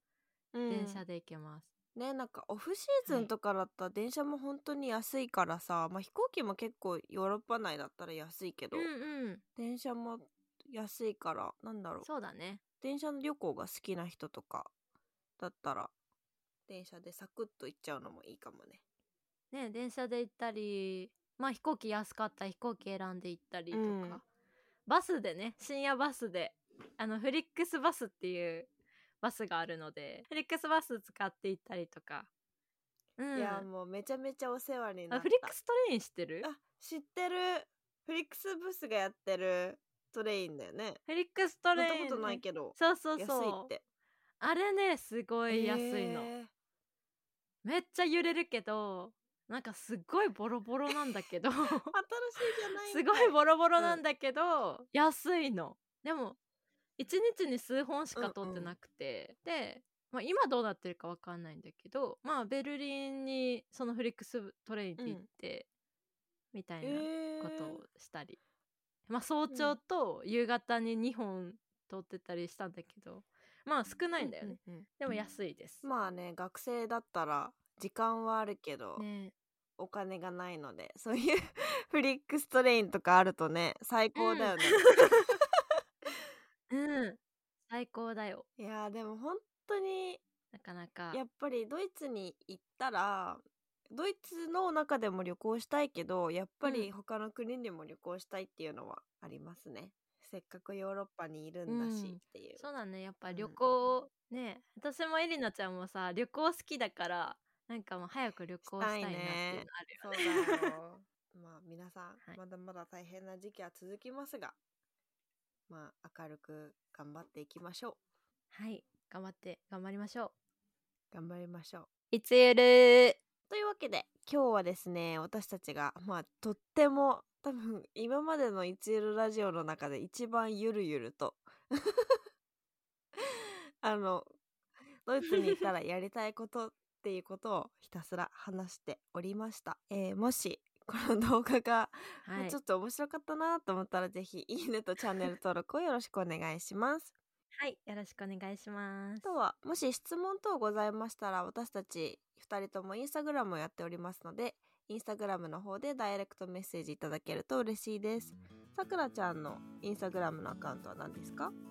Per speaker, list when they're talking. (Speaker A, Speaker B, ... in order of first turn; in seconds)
Speaker A: 0.5-1.0, 1.9-8.9, 9.6-12.1, 12.8-14.7, 15.4-15.9, 16.7-18.8, 23.7-24.2, 33.3-35.5, 36.4-41.0, 41.7-43.8, 45.5-46.5, 51.9-54.0, 58.1-58.7, 65.0-65.2, 66.8-67.8, 69.5-69.8, 74.2-74.9, 75.8-79.0, 79.8-85.2, 88.6-90.2, 91.1-102.6, 103.3-103.6, 108.6-114.5, 115.7-118.0, 121.1-121.9, 123.5-132.2, 133.2-134.3, 135.1-147.2, 149.2-161.5
Speaker B: 0.7-1.7, 3.0-3.3, 8.7-9.4, 12.0-12.6, 19.5-24.2, 24.9-28.7, 29.2-32.3, 33.2-33.7, 35.1-36.5, 41.1-43.7, 44.4-46.3, 47.6-51.9, 52.8-56.4, 57.0-65.7, 66.5-68.4, 69.1-75.8, 79.0-79.3, 84.2-85.1, 86.7-88.5, 90.5-91.2, 96.6-96.9, 101.7-110.7, 118.5-120.3, 122.1-123.2, 135.3-135.6, 142.2-142.6, 147.6-149.4